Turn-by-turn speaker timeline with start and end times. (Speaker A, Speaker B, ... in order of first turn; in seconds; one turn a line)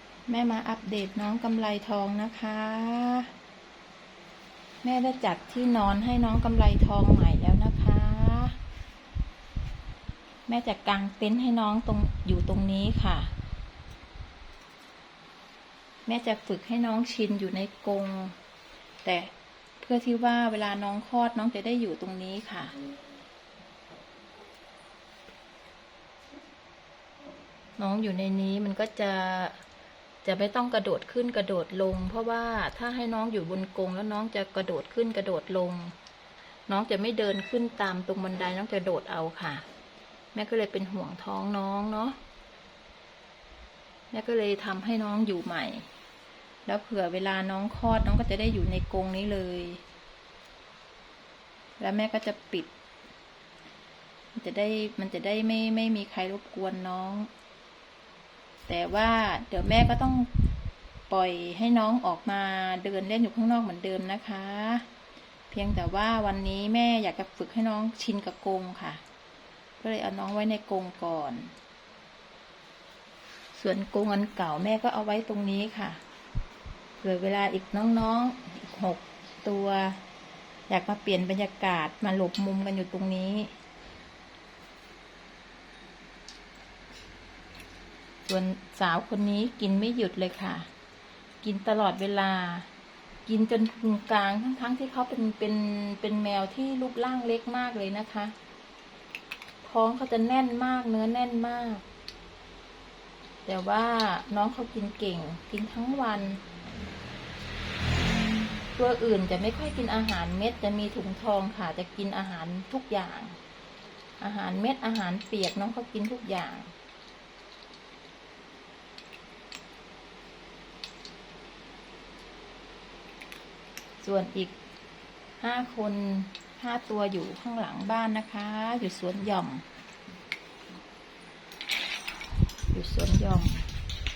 Speaker A: 0.3-3.3
Speaker A: 4.8-8.6
Speaker A: 10.5-13.3
Speaker A: 16.1-18.4
Speaker A: 19.0-22.7
Speaker A: 27.8-29.6
Speaker A: 30.2-35.9
Speaker A: 36.7-39.6
Speaker A: 40.3-42.2
Speaker A: 44.1-45.9
Speaker A: 46.6-49.8
Speaker A: 51.8-52.7
Speaker A: 54.4-57.3
Speaker A: 58.7-60.3
Speaker A: 61.1-64.8
Speaker A: 65.5-69.0
Speaker A: 69.8-71.5
Speaker A: 73.5-76.0
Speaker A: 77.0-80.0
Speaker A: 80.7-83.5
Speaker A: 88.3-90.7
Speaker A: 91.4-92.7
Speaker A: 93.2-98.3
Speaker A: 99.6-101.8
Speaker A: 103.4-106.4
Speaker A: 108.7-113.4
Speaker A: 114.2-116.7
Speaker A: 124.0-124.5
Speaker A: 125.4-129.6
Speaker A: 132.7-133.7